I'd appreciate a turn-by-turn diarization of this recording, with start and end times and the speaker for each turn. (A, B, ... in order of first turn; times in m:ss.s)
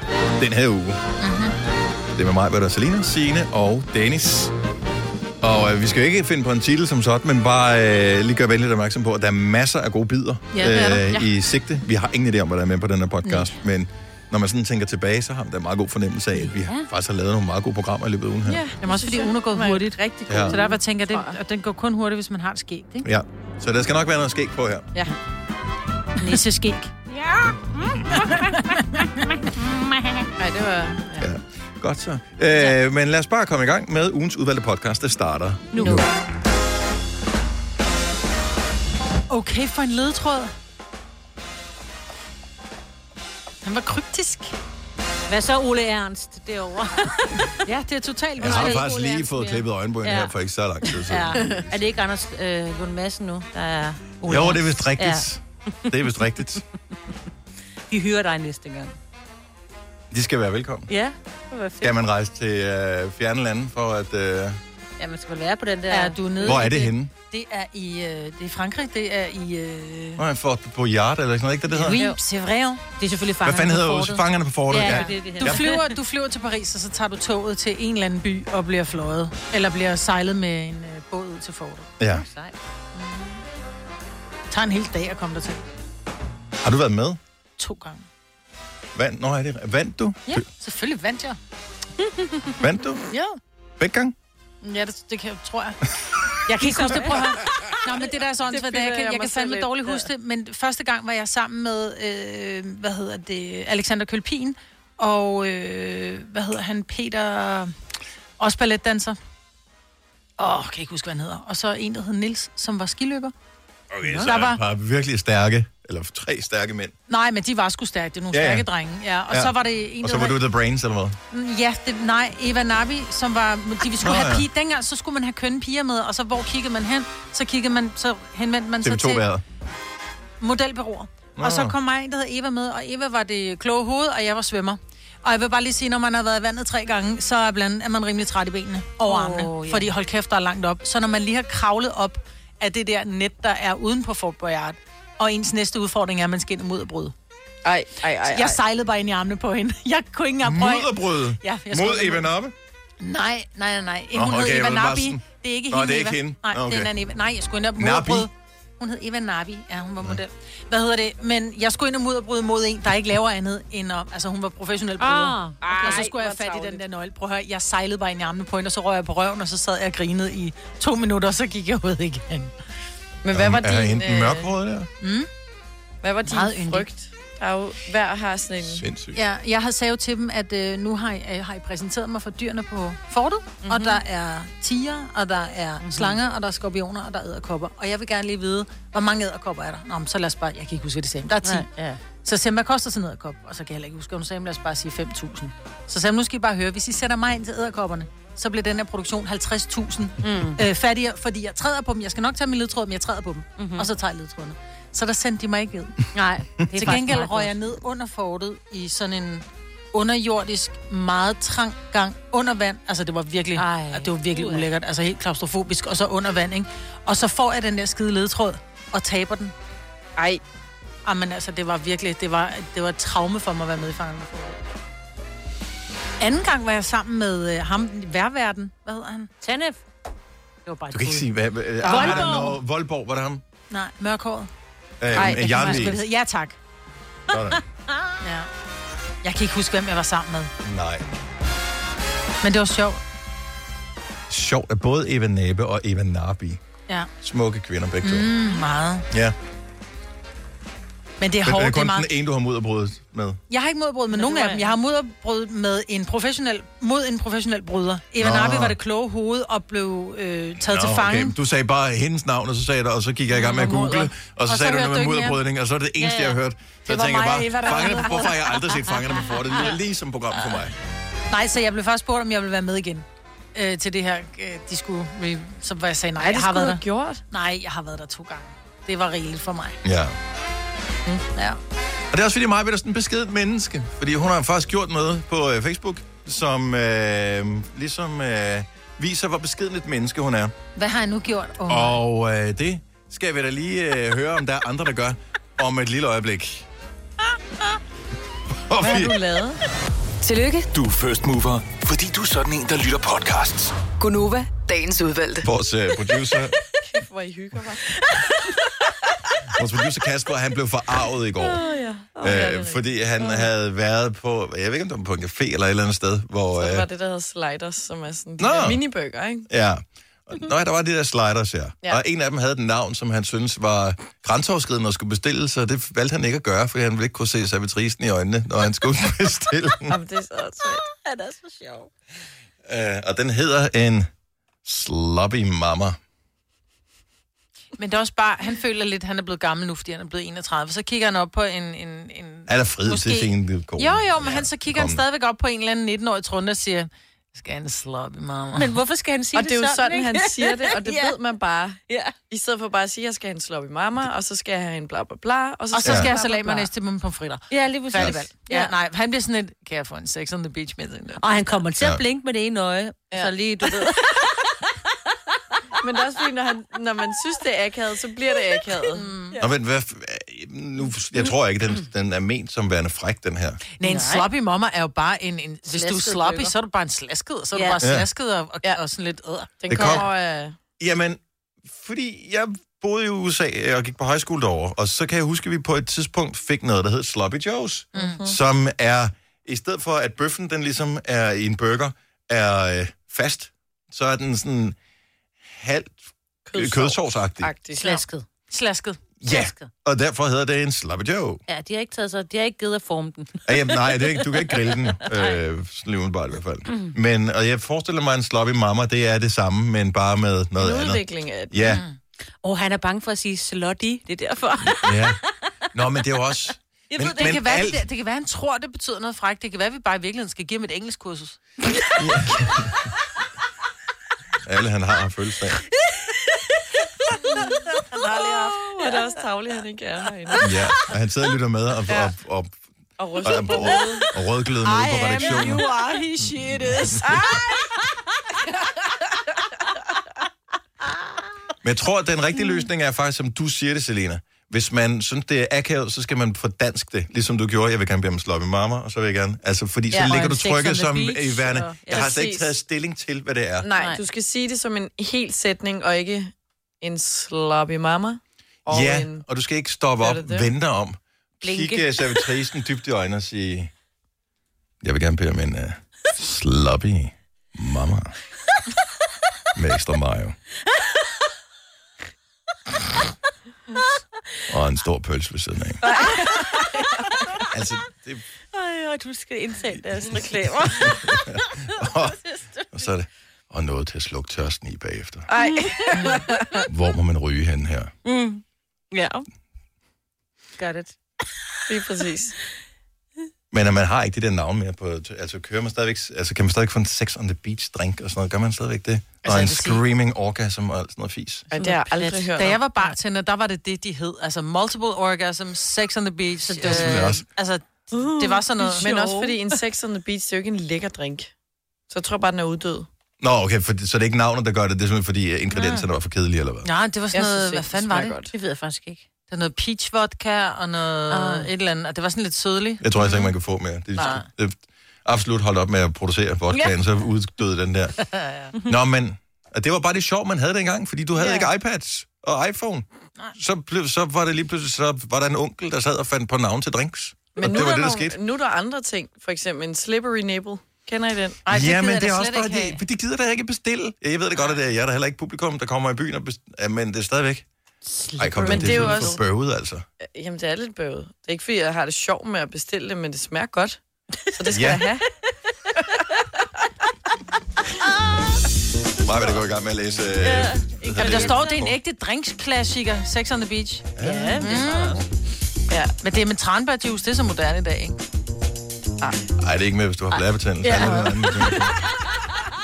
0:00.4-0:01.0 A
0:01.2-0:01.6 B
0:02.2-0:04.5 A
0:05.4-0:18.6 A
0:10.5-0:11.3 B
0:13.2-0:13.6 B
0:16.5-0:16.9 C
0:18.5-0:21.4 D
0:18.8-0:23.1 B
0:20.3-0:20.6 A
0:23.0-0:24.9 A
0:26.2-0:26.9 B
0:27.1-0:30.2 C
0:28.2-0:29.0 B
0:30.4-0:31.0 D
0:31.2-0:36.1 A
0:35.7-0:36.1 C
0:39.3-0:40.5 B
0:43.6-0:44.6 B
0:45.3-0:47.6 C
0:47.6-0:49.3 B
0:48.4-0:52.0 A
0:48.4-0:50.3 C
0:51.1-0:55.2 C
0:54.2-0:56.6 A
0:57.9-0:59.0 C
1:00.1-1:00.9 A
1:00.9-1:02.0 C
1:01.8-1:04.6 A
1:05.0-1:06.7 C
1:05.9-1:10.2 B
1:06.4-1:07.1 A
1:10.2-1:12.0 A
1:11.7-1:14.2 B
1:11.8-1:12.2 C
1:13.0-1:13.7 C
1:13.4-1:15.6 A
1:14.7-1:15.9 C
1:14.7-1:21.9 B
1:22.0-1:22.2 A
1:22.1-1:22.6 C
1:23.0-1:23.4 B
1:24.5-1:25.6 B
1:26.6-1:27.2 A
1:27.6-1:28.1 B
1:29.0-1:30.5 A
1:30.3-1:31.4 B
1:32.6-1:33.1 A
1:33.1-1:33.4 B
1:33.8-1:34.2 A
1:34.6-1:35.8 B
1:36.5-1:47.7 B
1:36.6-1:37.3 C
1:38.5-1:40.1 D
1:48.4-1:49.2 B
1:50.4-1:53.3 B
1:53.9-1:56.9 A
1:54.0-1:54.6 B
1:57.1-2:00.4 B
1:58.3-1:58.7 A
1:59.3-2:01.2 A
2:01.3-2:09.2 B
2:04.0-2:04.5 A
2:08.8-2:09.4 A
2:10.4-2:27.1 B
2:11.4-2:11.7 A
2:19.1-2:19.9 C
2:27.6-2:28.6 D
2:28.2-2:32.3 B
2:30.4-2:32.6 A
2:33.0-2:52.5 B
2:34.1-2:36.9 A
2:37.8-2:38.3 A
2:45.0-2:46.8 C
2:45.6-2:46.7 D
2:53.2-2:54.5 D
2:53.3-2:54.9 A
2:55.0-2:55.3 B
2:56.0-2:58.8 D
2:56.3-2:56.9 B
2:58.6-2:59.2 A
2:59.1-3:11.7 B
3:03.6-3:04.0 C
3:05.8-3:06.2 C
3:11.4-3:12.0 C
3:12.2-3:26.1 B
3:20.2-3:20.6 C
3:23.6-3:23.9 C
3:26.1-3:27.5 C
3:26.7-3:39.5 B
3:33.6-3:34.7 C
3:40.2-3:40.4 D
3:41.0-3:44.6 B
3:46.2-3:49.3 B
3:49.4-3:49.8 C
3:50.7-3:51.3 B
3:50.9-3:53.4 A
3:51.8-3:52.6 B
3:51.9-3:52.4 C
3:53.7-3:54.5 B
3:55.0-3:56.0 A
3:55.1-3:56.6 B
3:55.2-3:55.9 D
3:57.3-3:57.6 A
3:58.2-3:58.5 B
3:59.2-4:00.5 B
4:00.6-4:01.1 A
4:02.4-4:03.0 B
4:04.3-4:06.6 A
4:07.2-4:08.4 A
4:08.0-4:09.1 B
4:09.1-4:09.4 A
4:11.2-4:12.1 B
4:11.4-4:13.4 A
4:13.5-4:21.4 B
4:14.1-4:14.6 D
4:18.2-4:18.8 A
4:20.6-4:30.8 A
4:23.4-4:25.4 B
4:26.0-4:26.4 C
4:26.9-4:28.5 B
4:31.3-4:39.8 B
4:36.2-4:37.2 D
4:39.8-4:40.2 A
4:41.3-4:41.6 B
4:42.1-4:50.5 A
4:50.8-4:52.0 B
4:51.7-4:56.7 A
4:58.7-4:59.2 A
4:58.8-4:59.5 C
5:00.2-5:00.7 E
5:00.7-5:03.8 F
5:04.0-5:05.5 E
5:05.4-5:06.6 A
5:06.8-5:08.1 D
5:09.5-5:11.6 A
5:11.4-5:13.5 D
5:12.2-5:16.9 A
5:16.6-5:19.5 D
5:18.4-5:18.8 A
5:19.5-5:30.0 A
5:29.9-5:30.8 D
5:30.6-5:31.9 C
5:32.6-5:34.1 A
5:34.6-5:36.0 A
5:37.8-5:48.8 B
5:42.5-5:45.0 A
5:48.6-5:51.2 C
5:49.3-5:56.7 D
5:51.9-5:52.1 C
5:55.7-6:01.2 B
5:55.8-5:56.1 A
5:57.5-5:58.3 C
6:01.2-6:04.5 C
6:05.8-6:09.1 D
6:09.0-6:09.4 B
6:09.4-6:13.6 A
6:13.8-6:20.0 B
6:13.8-6:14.3 C
6:15.7-6:16.5 C
6:17.5-6:17.8 C
6:17.8-6:18.1 A
6:19.6-6:20.6 D
6:19.7-6:20.1 A
6:20.8-6:34.8 A
6:27.9-6:28.4 D
6:28.0-6:28.2 B
6:35.4-6:36.0 A
6:36.5-6:38.0 D
6:36.5-6:37.5 A
6:37.8-6:38.3 C
6:37.8-6:39.7 B
6:39.2-6:41.4 A
6:41.5-6:45.4 C
6:43.5-6:51.8 A
6:50.6-6:51.7 D
6:52.4-6:55.2 C
6:54.8-6:55.2 A
6:55.7-6:57.8 A
6:56.9-6:57.4 C
6:57.0-7:01.4 B
7:02.0-7:02.9 A
7:04.4-7:05.6 A
7:07.9-7:08.9 B
7:08.6-7:10.4 D
7:10.4-7:12.6 A
7:13.0-7:14.1 D
7:13.2-7:15.7 A
7:14.7-7:16.5 B
7:14.9-7:17.8 C
7:16.2-7:17.2 A
7:21.6-7:33.7 A
7:30.1-7:32.1 C
7:31.9-7:32.5 D
7:33.6-7:39.2 D
7:33.8-7:34.0 C
7:38.7-7:43.7 A
7:40.0-7:40.5 D
7:41.4-7:42.2 C
7:44.8-7:48.1 A
7:49.6-7:50.4 A
7:54.5-7:55.8 A
7:55.8-7:56.9 D
7:56.2-7:56.7 C
7:57.5-7:58.2 A
7:58.5-8:01.4 C
8:00.8-8:05.3 A
8:05.3-8:06.6 D
8:05.4-8:06.6 C
8:06.7-8:07.9 A
8:08.0-8:09.2 C
8:10.6-8:10.9 C
8:11.7-8:12.4 D
8:13.5-8:21.4 A
8:19.2-8:19.8 B
8:21.5-8:22.6 D
8:21.6-8:22.2 C
8:22.3-8:29.0 B
8:26.5-8:27.1 C
8:26.6-8:27.2 A
8:28.0-8:31.3 D
8:28.6-8:29.5 C
8:31.9-8:32.9 D
8:33.2-8:36.7 A
8:35.6-8:35.8 B
8:36.6-8:38.1 B
8:37.1-8:38.3 D
8:38.3-8:39.0 C
8:39.3-8:42.8 B
8:41.1-8:41.5 C
8:42.8-8:48.0 A
8:44.0-8:44.2 B
8:48.6-8:58.2 A
8:57.3-9:01.4 D
9:01.4-9:02.8 B
9:01.5-9:07.5 A
9:08.0-9:09.0 C
9:08.2-9:09.9 A
9:08.4-9:09.2 D
9:10.0-9:13.8 D
9:14.3-9:15.1 D
9:14.5-9:14.8 A
9:19.0-9:21.8 A
9:20.2-9:21.7 C
9:21.0-9:25.0 B
9:24.0-9:24.5 A
9:24.0-9:25.0 C
9:26.0-9:28.0 B
9:29.4-9:31.8 A
9:30.7-9:31.0 C